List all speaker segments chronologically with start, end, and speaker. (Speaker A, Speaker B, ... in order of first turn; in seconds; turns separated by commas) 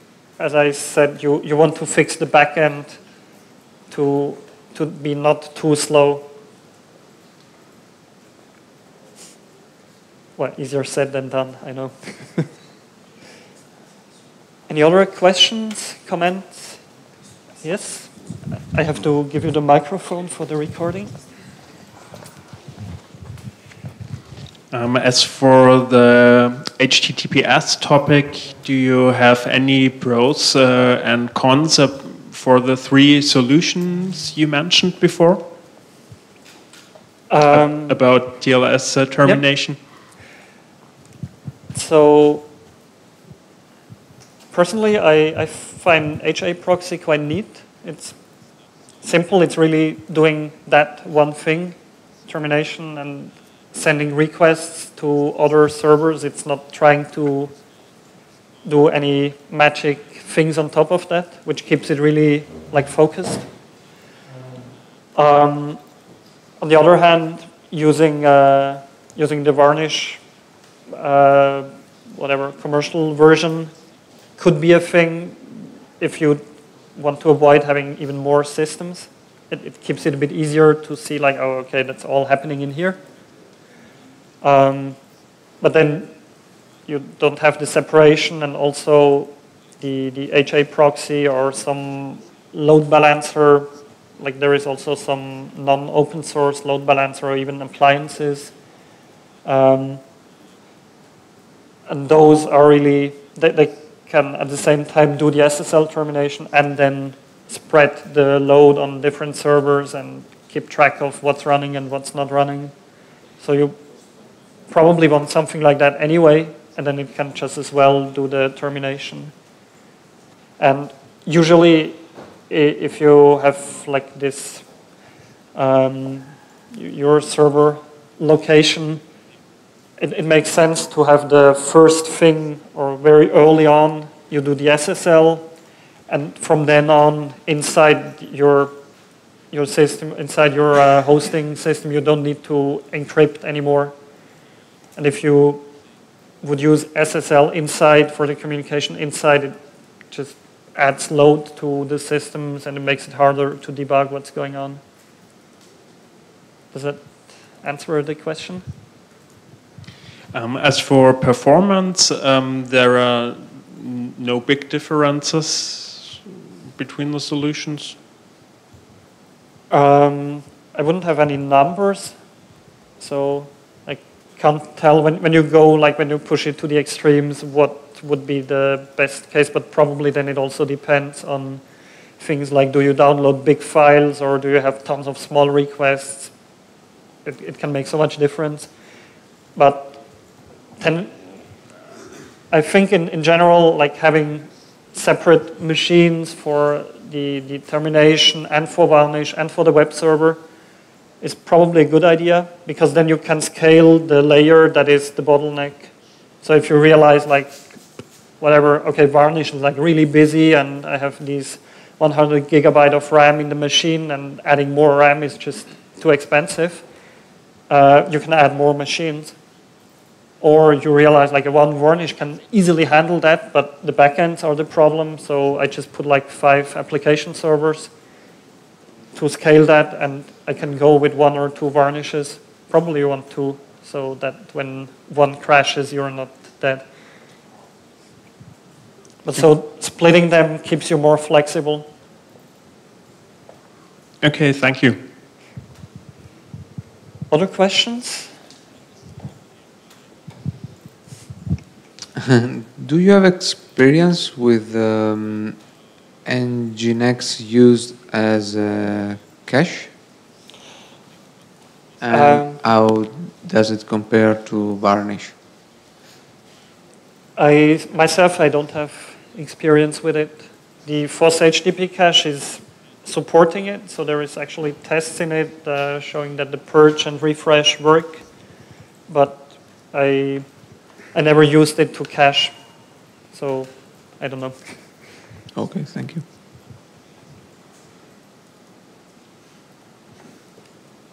Speaker A: 0.4-3.0, Speaker A: 3.9-6.3, Speaker A: 10.4-12.5, Speaker A: 14.7-16.8, Speaker A: 17.6-21.1, Speaker B: 24.7-35.5, Speaker A: 37.3-38.0, Speaker B: 37.5-39.8, Speaker A: 41.7-42.5, Speaker A: 44.5-48.1, Speaker A: 49.0-51.8, Speaker A: 52.3-57.5, Speaker A: 58.6-63.5, Speaker A: 65.2-65.8, Speaker A: 66.6-70.2, Speaker A: 70.9-73.7, Speaker A: 74.4-76.4, Speaker A: 77.0-83.0, Speaker A: 84.4-85.0, Speaker A: 85.6-86.1, Speaker A: 86.9-98.5, Speaker A: 99.5-100.0, Speaker A: 101.9-112.7, Speaker A: 113.4-113.8, Speaker A: 114.7-119.3, Speaker A: 120.6-122.0, Speaker A: 122.5-124.6, Speaker A: 125.6-129.0, Speaker A: 130.0-135.5, Speaker A: 136.1-138.8, Speaker A: 139.5-143.9, Speaker A: 145.0-145.7, Speaker A: 146.4-149.6, Speaker A: 150.1-154.8, Speaker A: 156.7-158.7, Speaker B: 160.3-168.0, Speaker A: 169.7-172.2, Speaker A: 173.0-181.6, Speaker A: 182.2-186.3, Speaker A: 187.2-188.7, Speaker A: 189.6-190.0, Speaker A: 190.8-191.2, Speaker A: 192.5-200.4, Speaker A: 201.2-207.8, Speaker A: 208.4-216.8, Speaker A: 217.7-219.3, Speaker A: 220.4-227.9, Speaker A: 229.2-236.9, Speaker A: 239.2-241.9, Speaker B: 244.2-245.0, Speaker A: 247.3-248.3, Speaker C: 252.4-255.6, Speaker C: 256.3-259.9, Speaker C: 262.0-265.4, Speaker A: 262.1-262.6, Speaker A: 267.4-278.2, Speaker A: 279.1-280.5, Speaker A: 281.1-282.5, Speaker A: 283.3-284.8, Speaker C: 285.6-286.2